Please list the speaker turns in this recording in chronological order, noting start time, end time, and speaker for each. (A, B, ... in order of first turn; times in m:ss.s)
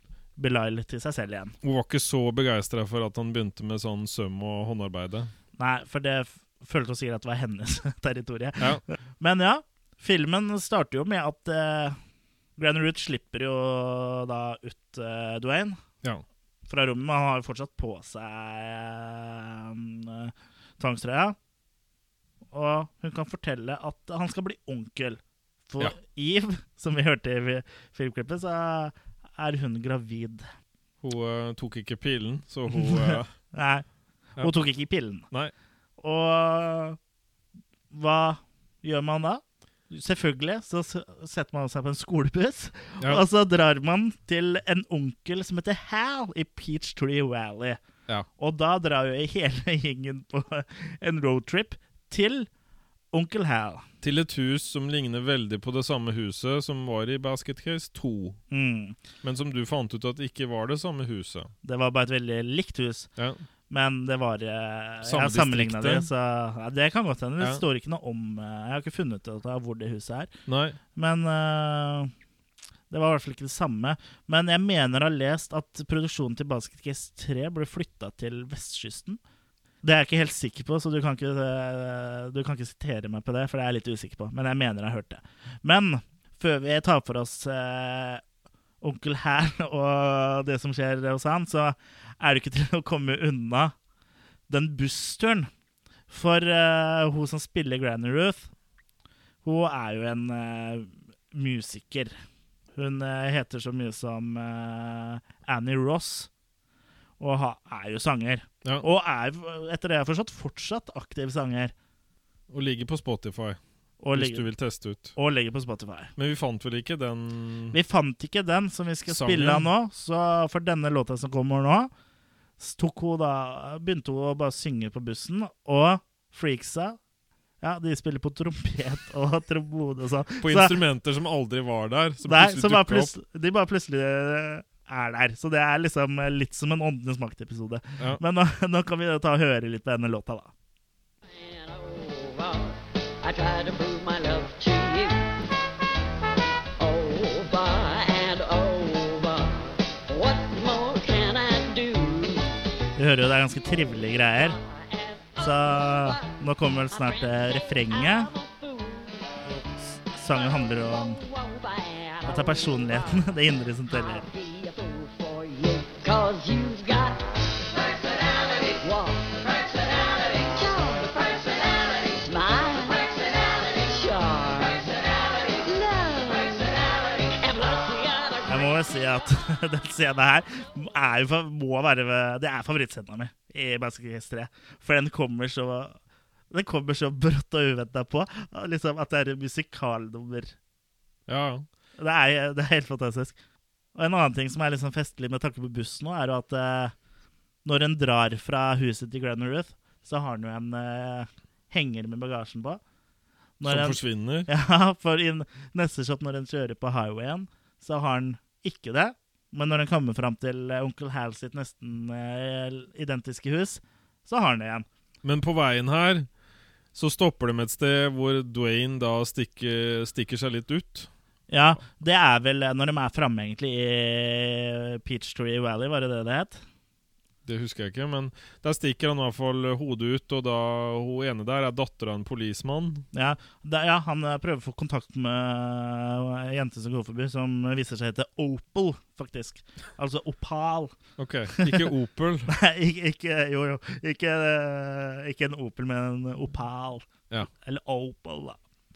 0:00.4-0:01.5 A
0:01.6-0:05.3 B
0:05.6-0:12.0 A
0:12.6-0:15.8 A
0:16.7-0:21.4 A
0:22.5-0:30.5 A
0:31.0-0:33.3 B
0:32.7-0:33.8 A
0:34.4-0:35.3 A
0:36.0-0:37.0 A
0:37.9-0:47.8 A
0:48.4-0:52.5 A
0:53.1-0:53.8 A
0:54.0-0:58.4 B
0:58.5-0:59.0 A
0:59.2-1:01.5 B
1:01.6-1:03.1 A
1:03.7-1:10.3 A
1:05.0-1:06.1 B
1:10.5-1:10.8 B
1:10.9-1:12.1 A
1:12.9-1:19.2 A
1:19.8-1:28.2 A
1:28.8-1:33.7 A
1:34.5-1:35.5 A
1:36.1-1:38.5 A
1:39.4-1:42.1 A
1:42.8-1:46.3 A
1:47.2-1:51.7 A
1:52.5-1:53.6 B
1:54.0-1:54.5 A
1:54.1-1:55.2 B
1:55.1-1:56.1 A
1:56.2-1:57.8 B
1:57.7-2:01.9 A
1:59.1-1:59.7 B
2:02.6-2:07.0 A
2:07.6-2:10.7 A
2:10.4-2:13.1 B
2:12.2-2:20.5 A
2:21.2-2:25.3 C
2:26.8-2:32.6 C
2:33.0-2:34.6 A
2:33.8-2:39.6 C
2:35.4-2:38.3 A
2:39.4-2:41.2 A
2:40.2-2:43.3 C
2:42.2-2:44.2 A
2:43.9-2:58.9 C
2:58.4-3:06.0 A
3:06.5-3:10.5 A
3:11.3-3:11.7 B
3:12.0-3:13.4 A
3:13.9-3:16.9 A
3:17.6-3:22.8 A
3:23.6-3:34.8 A
3:23.6-3:24.5 B
3:35.2-3:36.3 B
3:36.9-3:41.1 B
3:41.5-3:46.6 A
3:47.4-3:53.0 B
3:53.1-4:00.9 A
4:01.2-4:02.5 B
4:01.5-4:01.9 A
4:02.5-4:08.6 A